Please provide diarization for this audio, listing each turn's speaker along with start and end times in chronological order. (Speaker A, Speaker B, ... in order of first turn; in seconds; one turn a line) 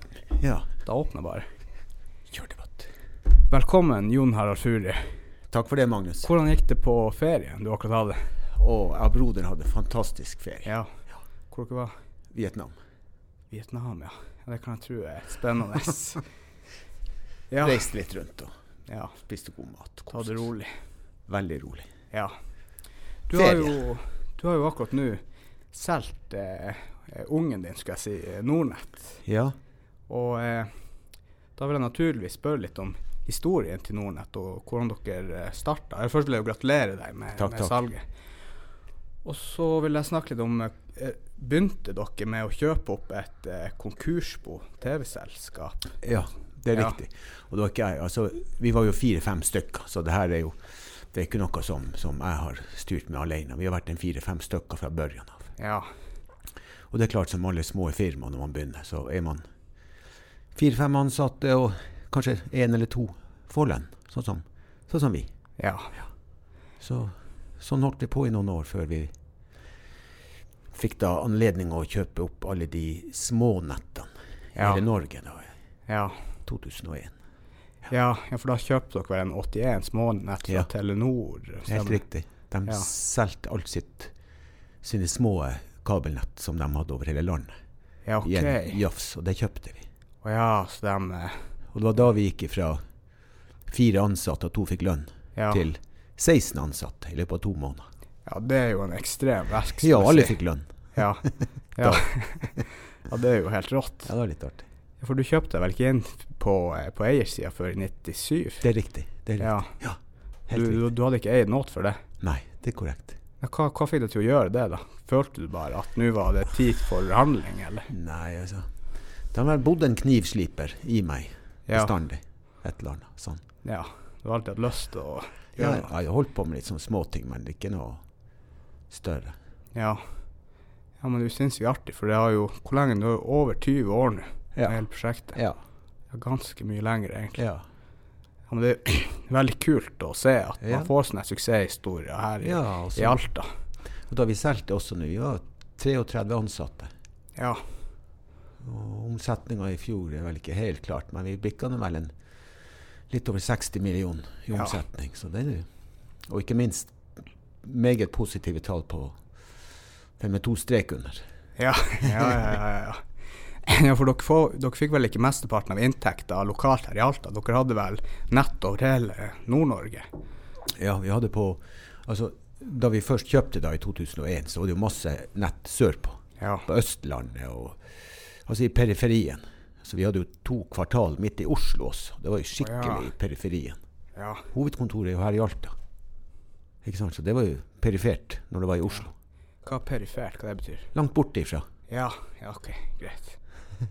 Speaker A: 0.3-0.7
Speaker B: 0.8-1.5
Speaker A: 2.3-2.9
Speaker B: 3.5-5.1
Speaker A: 5.5-6.3
Speaker B: 6.2-8.3
Speaker A: 8.5-10.7
Speaker B: 10.6-10.9
Speaker B: 11.5-11.9
Speaker A: 12.3-12.7
Speaker B: 13.5-16.2
Speaker B: 17.5-17.8
Speaker A: 17.6-18.5
Speaker B: 18.9-19.1
Speaker A: 19.2-20.4
Speaker B: 20.1-20.7
Speaker A: 21.3-21.9
Speaker B: 23.3-29.2
Speaker A: 23.3-23.8
Speaker A: 29.2-29.6
Speaker B: 30.1-30.7
Speaker B: 31.6-38.0
Speaker A: 37.4-37.8
Speaker B: 39.2-45.8
Speaker A: 46.0-50.5
Speaker A: 51.1-55.5
Speaker B: 55.6-55.9
Speaker A: 56.9-59.4
Speaker A: 60.5-65.3
Speaker B: 65.6-65.9
Speaker A: 66.8-69.1
Speaker A: 70.7-75.5
Speaker B: 74.5-74.8
Speaker B: 75.9-76.2
Speaker A: 76.5-77.1
Speaker B: 77.9-82.0
Speaker A: 81.7-84.1
Speaker A: 84.8-87.5
Speaker B: 88.0-88.8
Speaker A: 88.2-89.8
Speaker B: 90.2-91.4
Speaker A: 91.7-92.8
Speaker A: 93.7-97.8
Speaker B: 95.3-95.7
Speaker B: 98.2-100.3
Speaker A: 99.8-100.7
Speaker B: 100.9-104.1
Speaker A: 101.8-102.6
Speaker A: 104.0-104.6
Speaker B: 105.0-108.7
Speaker A: 108.6-110.8
Speaker B: 109.4-109.7
Speaker B: 110.5-112.0
Speaker A: 112.2-113.2
Speaker B: 113.4-117.9
Speaker A: 117.9-118.7
Speaker A: 119.3-123.4
Speaker B: 123.6-125.9
Speaker A: 125.6-128.0
Speaker A: 128.9-129.3
Speaker B: 129.8-130.0
Speaker B: 131.0-135.4
Speaker B: 136.1-137.4
Speaker A: 137.4-137.6
Speaker B: 138.5-143.5
Speaker A: 140.6-140.9
Speaker A: 142.4-143.2
Speaker A: 144.1-146.9
Speaker B: 147.3-147.6
Speaker A: 148.6-152.1
Speaker A: 153.1-155.7
Speaker A: 156.3-157.0
Speaker A: 157.6-159.2
Speaker A: 160.2-161.2
Speaker B: 161.6-163.0
Speaker A: 162.0-162.4
Speaker B: 163.6-170.1
Speaker A: 170.8-177.8
Speaker B: 176.4-176.6
Speaker A: 178.4-183.8
Speaker B: 182.6-183.1
Speaker B: 184.2-184.5
Speaker A: 184.5-185.8
Speaker A: 186.8-189.1
Speaker B: 189.6-190.9
Speaker A: 190.9-191.7
Speaker B: 191.9-193.4